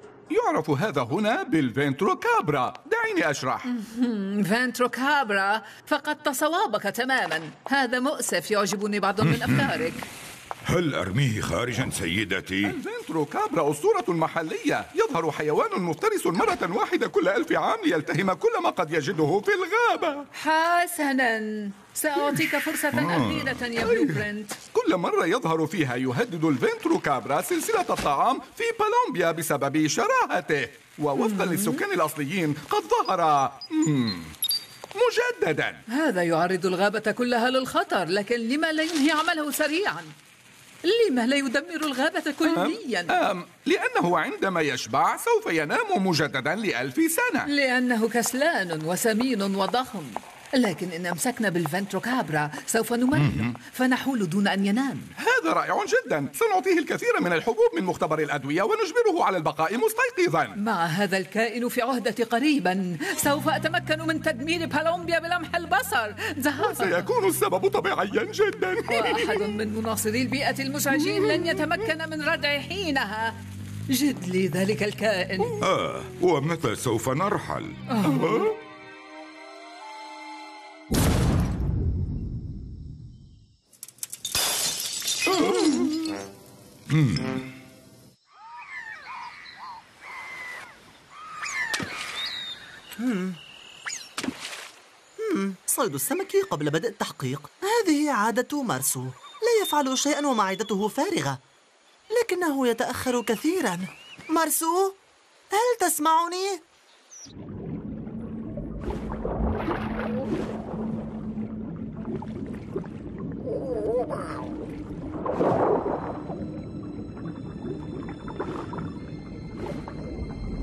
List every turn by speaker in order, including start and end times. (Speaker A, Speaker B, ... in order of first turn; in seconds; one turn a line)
Speaker A: 0.3-3.7
Speaker B: 3.6-10.1
Speaker C: 9.2-9.9
Speaker C: 10.7-12.8
Speaker A: 12.6-20.3
Speaker B: 20.4-24.6
Speaker C: 22.9-23.6
Speaker A: 23.8-24.2
Speaker A: 24.7-34.4
Speaker B: 31.2-31.8
Speaker A: 35.0-35.8
Speaker B: 35.9-40.1
Speaker B: 40.9-43.1
Speaker A: 42.5-47.5
Speaker B: 47.5-55.1
Speaker C: 53.1-53.6
Speaker A: 55.2-60.6
Speaker B: 60.6-67.1
Speaker A: 66.6-69.5
Speaker B: 68.9-73.3
Speaker A: 71.2-71.6
Speaker B: 73.9-75.6
Speaker C: 75.6-77.8
Speaker B: 77.9-78.5
Speaker A: 78.1-78.5
Speaker C: 86.9-87.4
Speaker D: 93.0-93.4
Speaker D: 95.2-101.4
Speaker D: 102.1-105.0
Speaker D: 105.5-106.6